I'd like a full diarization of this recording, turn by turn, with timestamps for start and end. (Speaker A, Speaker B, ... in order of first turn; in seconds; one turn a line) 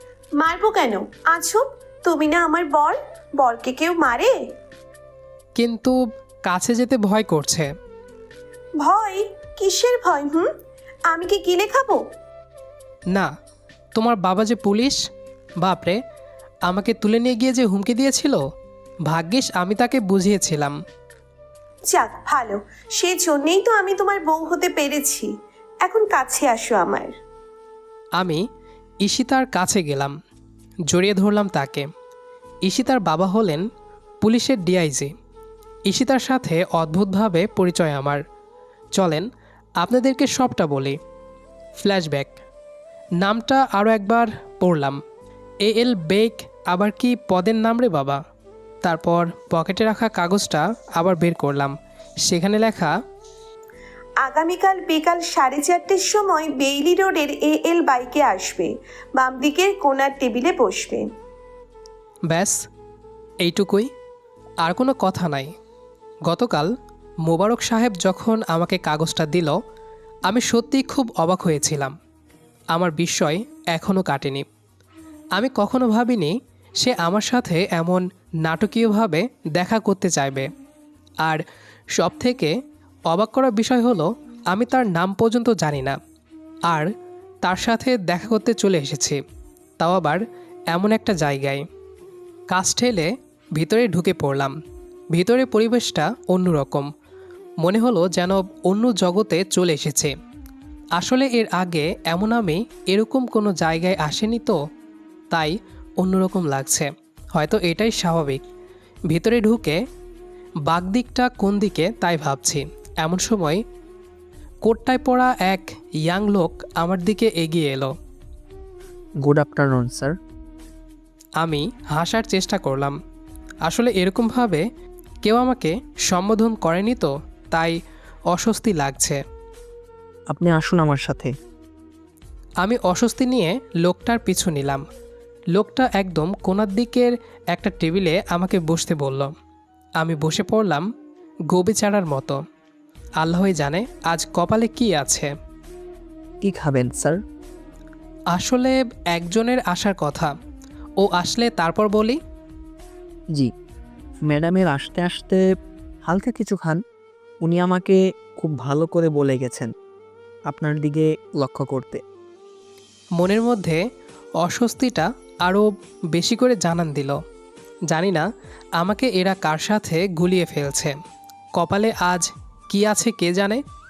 Speaker A: 0.4-4.3
Speaker B: 5.6-7.7
Speaker A: 8.8-10.5
Speaker A: 11.1-12.0
Speaker B: 13.9-15.0
Speaker B: 15.6-16.0
Speaker B: 16.7-18.4
Speaker B: 19.1-20.8
Speaker A: 21.9-25.3
Speaker A: 25.9-27.1
Speaker B: 28.2-28.4
Speaker B: 29.0-30.1
Speaker B: 30.9-31.9
Speaker B: 32.6-33.6
Speaker B: 34.2-35.1
Speaker B: 35.9-38.2
Speaker B: 39.0-39.3
Speaker B: 39.8-41.0
Speaker B: 41.8-42.4
Speaker B: 43.2-45.0
Speaker B: 45.6-48.2
Speaker B: 48.8-51.7
Speaker B: 52.3-52.9
Speaker A: 54.2-61.1
Speaker B: 62.3-62.5
Speaker B: 63.4-63.9
Speaker B: 64.6-65.5
Speaker B: 66.3-66.7
Speaker B: 67.2-69.6
Speaker B: 70.3-71.9
Speaker B: 72.7-74.5
Speaker B: 75.4-80.5
Speaker B: 82.0-82.5
Speaker B: 83.1-86.0
Speaker B: 87.4-89.2
Speaker B: 89.8-91.7
Speaker B: 92.5-94.5
Speaker B: 95.1-96.9
Speaker B: 97.6-100.1
Speaker B: 101.0-104.6
Speaker B: 105.3-108.4
Speaker B: 109.1-109.8
Speaker B: 110.7-113.6
Speaker B: 114.6-117.9
Speaker C: 119.2-120.2
Speaker B: 121.4-123.0
Speaker B: 123.7-124.6
Speaker B: 125.2-127.8
Speaker B: 128.3-129.2
Speaker C: 130.3-131.3
Speaker B: 132.6-134.8
Speaker B: 135.5-139.3
Speaker B: 140.0-140.8
Speaker B: 141.5-142.4
Speaker B: 143.2-145.3
Speaker C: 146.4-147.2
Speaker B: 148.3-150.3
Speaker B: 151.0-152.2
Speaker C: 154.3-155.4
Speaker C: 156.1-156.8
Speaker C: 157.4-159.7
Speaker C: 160.5-162.0
Speaker B: 163.2-163.8
Speaker B: 164.4-167.2
Speaker B: 167.9-168.2
Speaker B: 168.8-170.9
Speaker B: 171.6-173.6